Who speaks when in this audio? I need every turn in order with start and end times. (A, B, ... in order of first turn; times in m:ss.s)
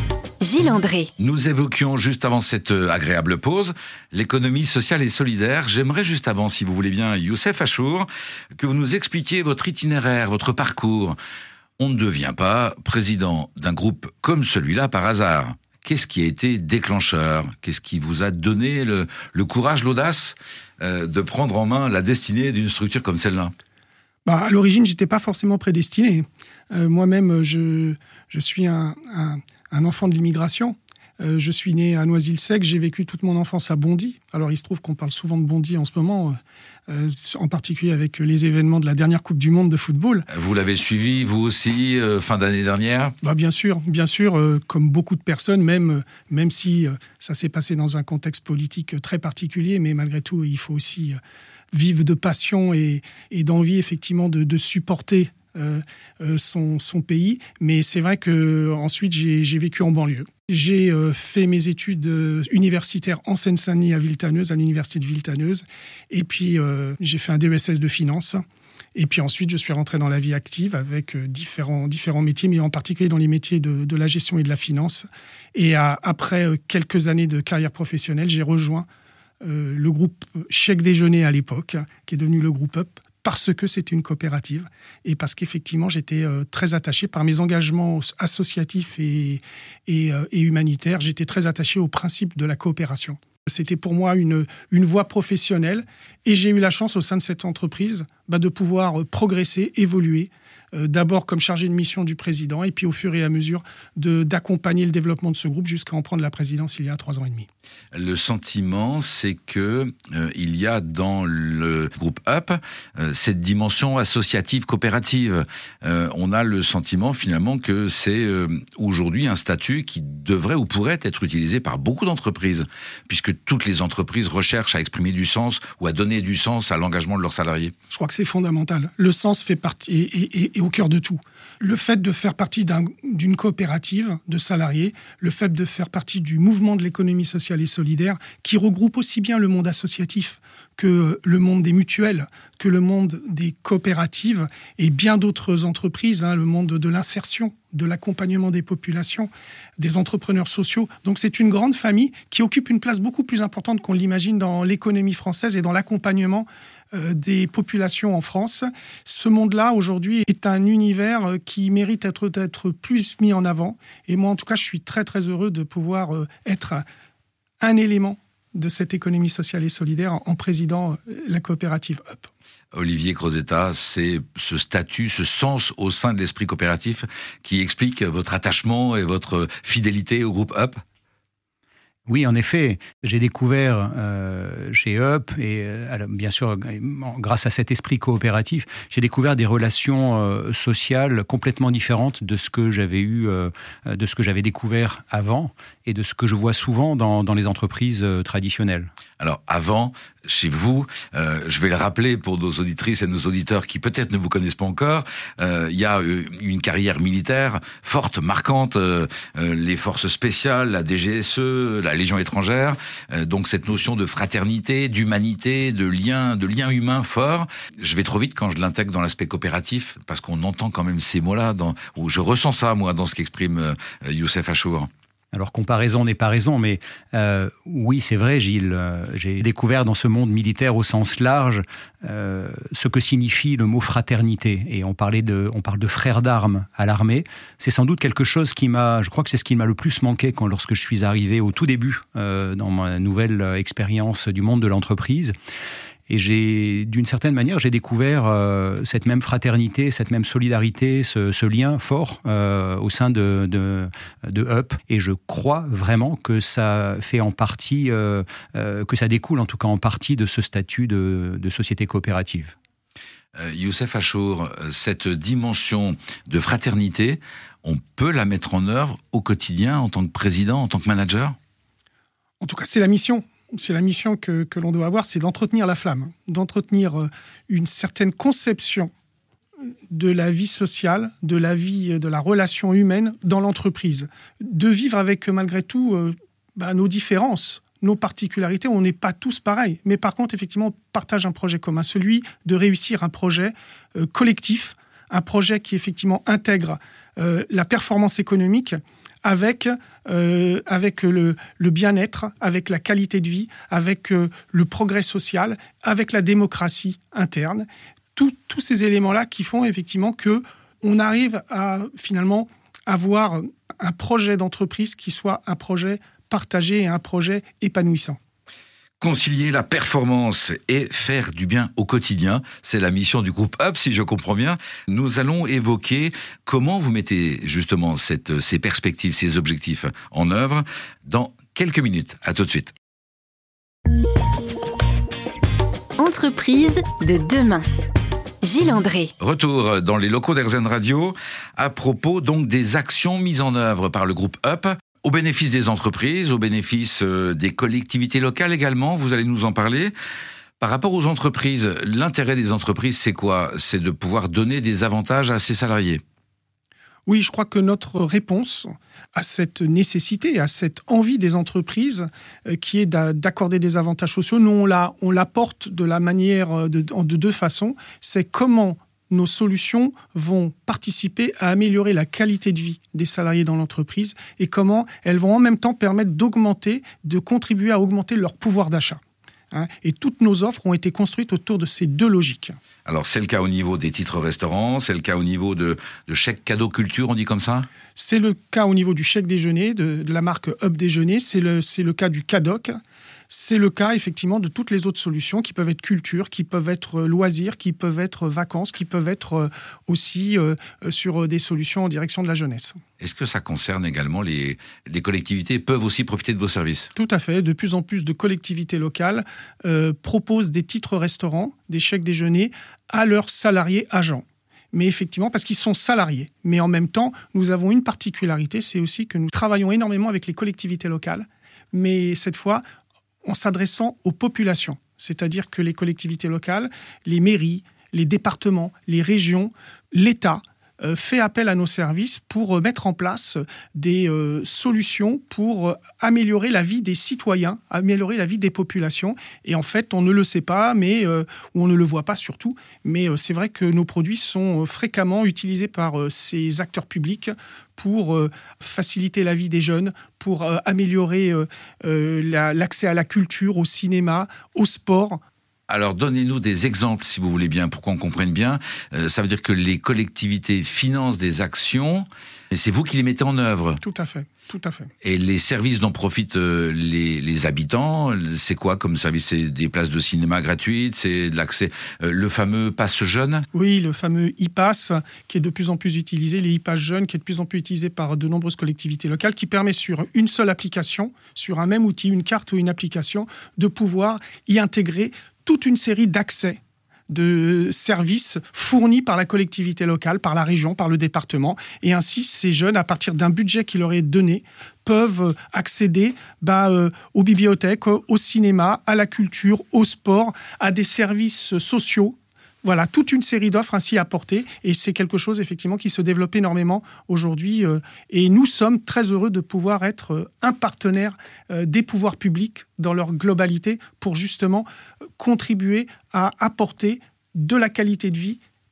0:00.4-0:01.1 A
0:01.2-0:11.2 B
0:11.8-0:23.5 B
0:24.2-0:36.4 C
0:36.9-0:40.3 C
0:40.3-0:43.2 B
0:43.2-0:51.2 C
0:51.7-1:08.4 C
1:09.0-1:18.8 C
1:19.4-1:47.5 C
1:47.9-2:07.7 B
2:07.9-2:46.8 C
2:47.6-2:52.3 C
2:52.7-3:00.8 B
3:02.1-3:18.9 D
3:19.2-3:44.9 B
3:45.3-4:05.3 D
4:06.1-4:22.5 D
4:23.4-4:31.4 B
4:32.4-4:38.9 C
4:39.9-5:18.2 C
5:19.0-5:32.8 B
5:36.0-5:37.6 A
5:38.4-5:39.1 A
5:39.2-5:49.9 B
5:50.6-5:56.0 B
5:57.1-6:19.0 C
6:19.5-6:22.6 C
6:22.9-6:27.7 B
6:28.0-6:32.8 C
6:33.3-6:42.8 C
6:43.0-6:46.9 B
6:46.9-7:02.6 C
7:03.2-7:35.2 C
7:35.7-7:43.8 B
7:43.8-7:44.9 C
7:45.0-7:53.5 B
7:53.5-8:34.7 C
8:35.2-8:38.4 C